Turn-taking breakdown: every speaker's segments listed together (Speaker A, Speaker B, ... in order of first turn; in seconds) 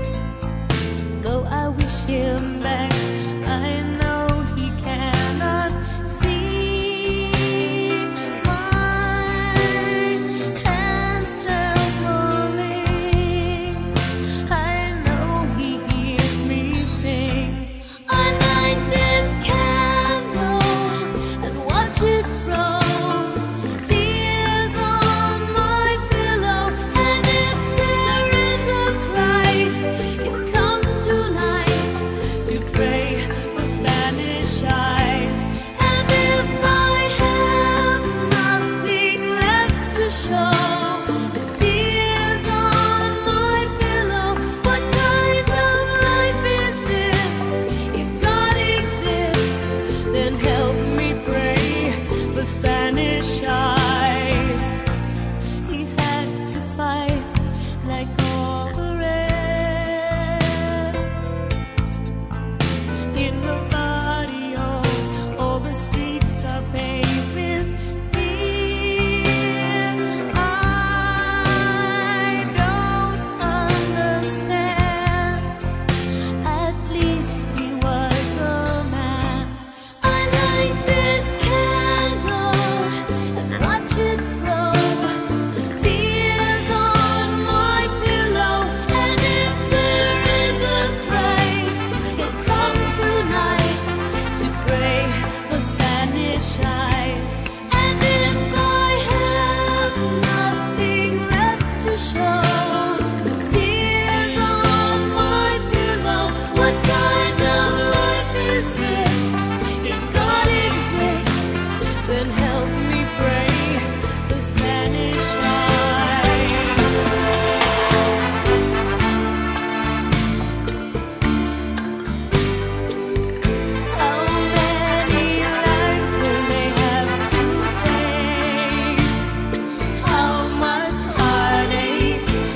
Speaker A: 1.2-13.9, 14.5-54.8, 55.6-61.3, 63.1-75.5, 76.4-85.2, 85.8-117.0, 123.9-129.2, 130.0-132.3